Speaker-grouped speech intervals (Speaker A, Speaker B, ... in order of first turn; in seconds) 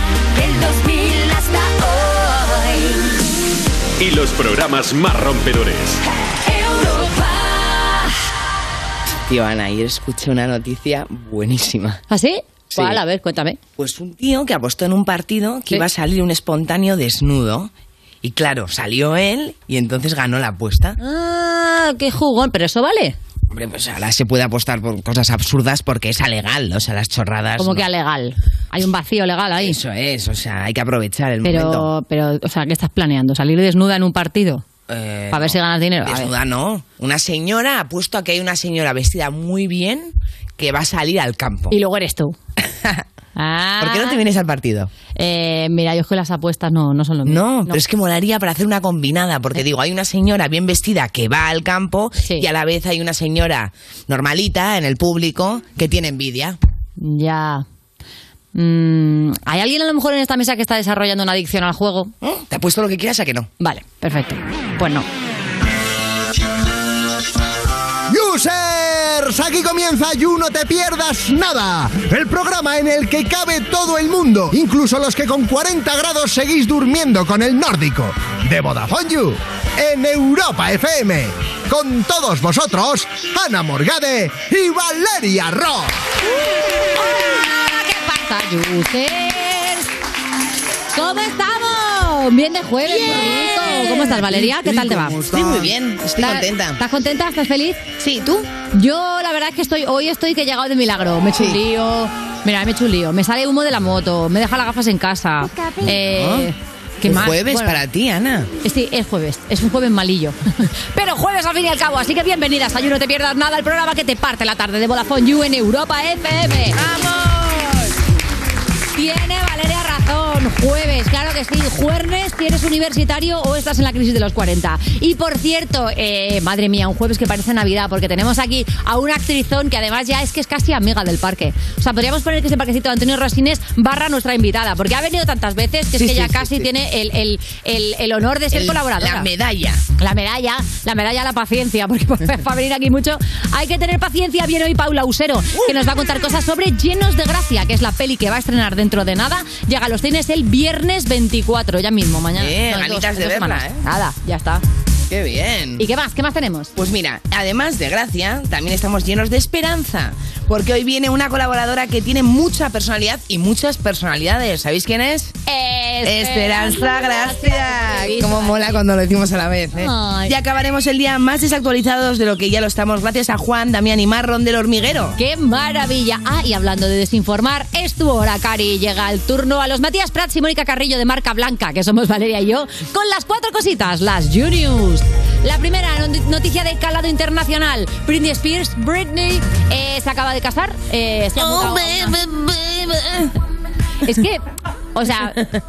Speaker A: 0.4-3.0, 6.5-7.5
Speaker B: 4.0-6.0
Speaker C: 9.3-12.0, 12.7-13.0, 13.8-17.7, 18.2-21.0, 23.5-27.9, 29.6-31.9, 34.9-41.7, 42.7-43.0, 43.8-44.9, 47.2-56.6, 62.2-63.5, 93.1-94.7, 95.3-96.8, 98.0-98.5, 101.3-101.6, 106.0-106.5, 107.0-108.5, 136.0-136.7, 138.5-139.8, 152.4-153.8, 155.1-155.8, 156.8-165.3, 166.0-175.2, 192.3-193.3
Speaker D: 12.1-13.6, 21.0-23.2, 27.6-29.8, 31.4-34.6, 35.3-36.3, 41.7-42.4, 43.4-44.2, 45.2-47.8, 52.2-52.5, 57.0-57.7, 58.5-62.1, 63.6-65.1, 87.0-89.9, 90.9-95.3, 96.2-97.9, 98.7-107.8, 108.6-117.5, 119.0-139.3, 140.0-154.6, 155.8-156.7, 165.5-168.8, 169.8-170.3, 175.2-192.2, 194.1-194.4, 194.9-195.5
Speaker E: 68.1-86.0